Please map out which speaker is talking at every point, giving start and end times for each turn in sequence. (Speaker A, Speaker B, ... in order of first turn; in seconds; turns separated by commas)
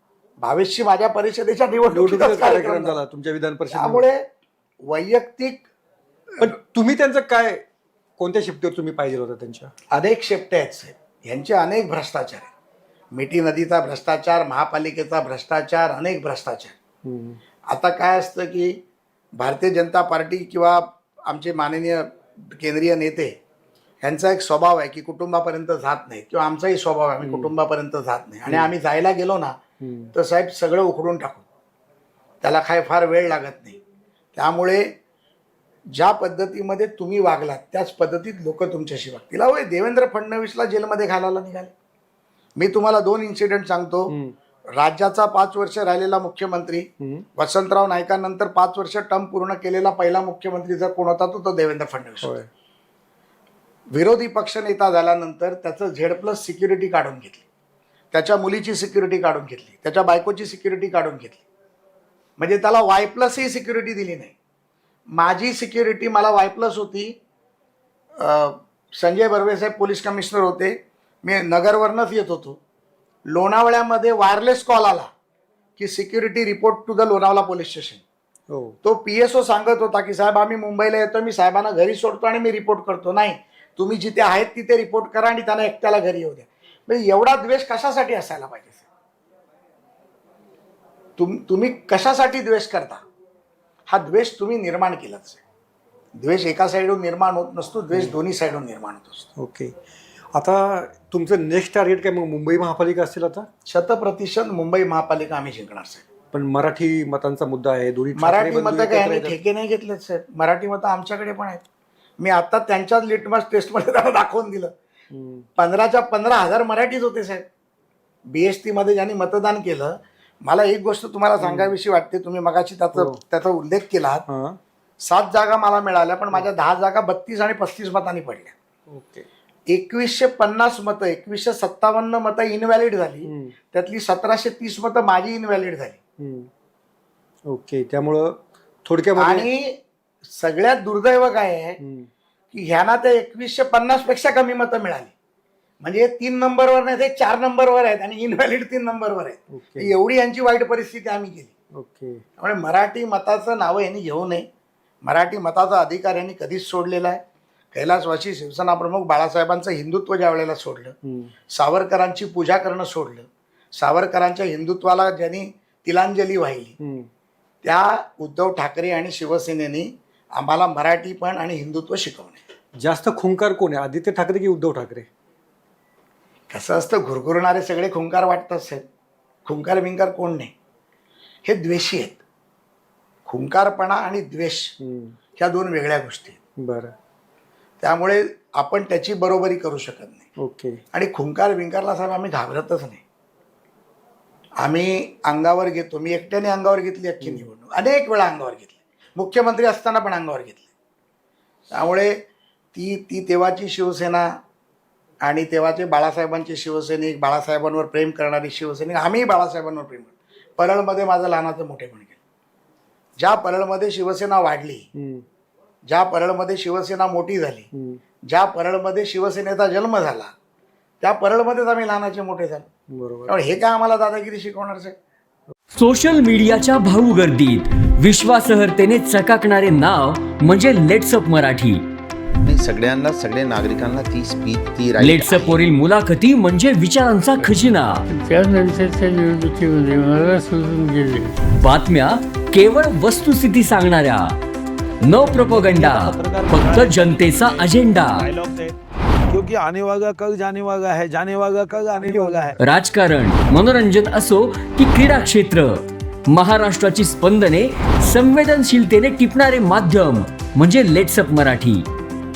Speaker A: 0.4-3.0, Speaker B: 1.9-4.0, Speaker A: 3.7-4.2, Speaker A: 4.8-5.7, Speaker B: 6.4-7.6, Speaker B: 8.2-9.7, Speaker A: 9.9-12.5, Speaker A: 13.1-16.7, Speaker B: 17.1-17.4, Speaker A: 17.7-18.8, Speaker A: 19.4-23.3, Speaker A: 24.0-29.5, Speaker B: 27.2-27.5, Speaker B: 28.5-28.7, Speaker B: 29.8-30.1, Speaker A: 30.1-31.5, Speaker A: 32.4-33.8, Speaker A: 34.4-34.9, Speaker A: 36.0-41.7, Speaker A: 42.6-44.1, Speaker B: 44.1-44.4, Speaker A: 44.8-52.4, Speaker B: 47.0-47.3, Speaker B: 52.2-52.5, Speaker A: 53.9-57.5, Speaker A: 58.1-61.5, Speaker A: 62.4-64.3, Speaker A: 65.2-67.1, Speaker A: 68.2-72.6, Speaker A: 73.3-75.1, Speaker A: 75.8-78.0, Speaker B: 78.5-78.8, Speaker A: 78.8-88.9, Speaker A: 91.2-93.0, Speaker A: 93.9-95.4, Speaker A: 96.2-99.3, Speaker B: 99.4-99.7, Speaker B: 100.3-103.5, Speaker A: 103.7-106.0, Speaker B: 106.3-109.4, Speaker A: 108.2-111.6, Speaker A: 112.2-114.7, Speaker B: 115.1-115.5, Speaker A: 115.6-117.4, Speaker A: 118.3-119.9, Speaker A: 120.5-124.2, Speaker B: 121.4-121.8, Speaker B: 124.3-124.6, Speaker A: 125.0-128.5, Speaker B: 128.9-129.3, Speaker A: 129.7-136.0, Speaker B: 133.2-133.5, Speaker B: 136.2-136.5, Speaker B: 137.5-139.5, Speaker A: 139.2-139.8, Speaker A: 140.4-141.8, Speaker B: 141.8-142.1, Speaker A: 142.5-145.1, Speaker A: 145.8-151.5, Speaker B: 149.5-149.9, Speaker B: 151.8-152.2, Speaker A: 152.4-154.5, Speaker A: 155.1-157.2, Speaker A: 157.7-160.9, Speaker B: 161.1-161.3, Speaker A: 161.6-166.7, Speaker B: 166.8-167.1, Speaker A: 167.6-172.4, Speaker B: 172.8-175.1, Speaker A: 176.5-178.8, Speaker A: 179.4-180.5, Speaker A: 181.4-182.2, Speaker A: 183.3-184.7, Speaker B: 184.8-185.1, Speaker A: 185.4-186.4, Speaker B: 186.6-186.9, Speaker A: 187.8-190.3, Speaker B: 190.4-190.8, Speaker A: 190.9-193.0, Speaker A: 194.6-200.7, Speaker B: 197.2-197.5, Speaker A: 201.8-202.1, Speaker A: 202.7-204.2, Speaker A: 205.2-212.2, Speaker A: 213.2-214.9, Speaker B: 215.0-215.2, Speaker A: 215.9-217.7, Speaker B: 217.7-218.0, Speaker A: 218.3-220.3, Speaker A: 221.0-222.7, Speaker B: 222.9-223.4, Speaker A: 223.3-224.9, Speaker C: 225.7-231.8, Speaker D: 232.4-235.7, Speaker C: 235.0-238.0, Speaker E: 238.1-241.3, Speaker C: 241.6-244.3, Speaker C: 245.0-248.3, Speaker F: 245.2-248.8, Speaker F: 249.3-252.5, Speaker B: 252.0-252.6, Speaker C: 252.6-255.8, Speaker C: 256.3-261.9